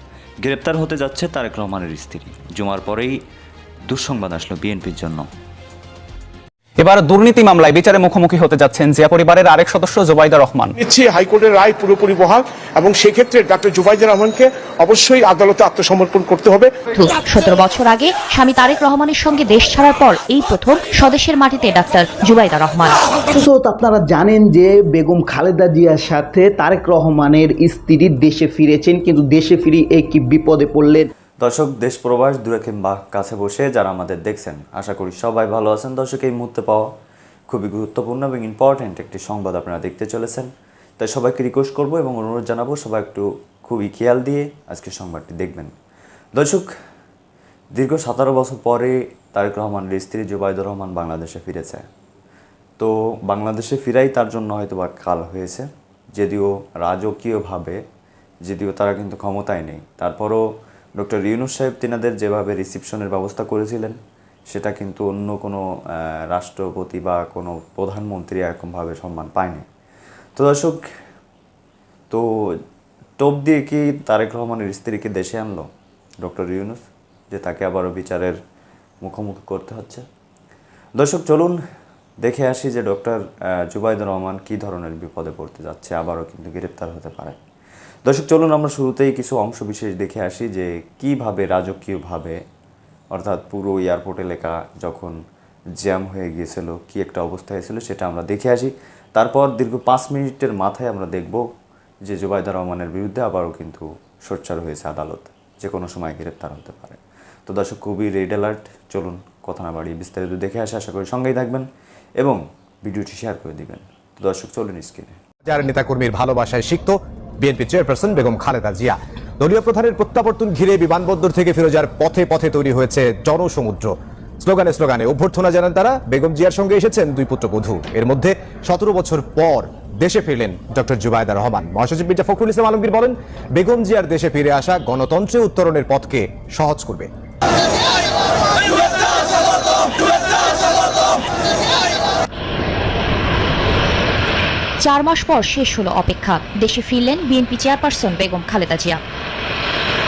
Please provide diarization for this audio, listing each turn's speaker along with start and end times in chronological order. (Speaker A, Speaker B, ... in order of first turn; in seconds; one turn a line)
Speaker A: 0.4-3.2
Speaker A: 3.9-5.3
Speaker B: 6.8-10.7
Speaker C: 10.8-16.7
Speaker D: 16.9-23.0
Speaker E: 23.3-31.1
Speaker A: 31.4-36.9
Speaker A: 37.5-45.7
Speaker A: 46.3-46.7
Speaker A: 47.8-51.8
Speaker A: 52.8-57.8
Speaker A: 58.5-60.4
Speaker A: 61.0-64.0
Speaker A: 64.5-69.6
Speaker A: 70.3-70.8
Speaker A: 72.1-72.5
Speaker A: 73.2-75.7
Speaker A: 76.2-78.4
Speaker A: 79.0-80.0
Speaker A: 81.0-81.6
Speaker A: 82.2-87.4
Speaker A: 88.0-92.4
Speaker A: 93.1-95.2
Speaker A: 95.8-101.4
Speaker A: 102.0-111.7
Speaker A: 112.2-115.2
Speaker F: 115.5-137.1
Speaker D: 144.8-149.0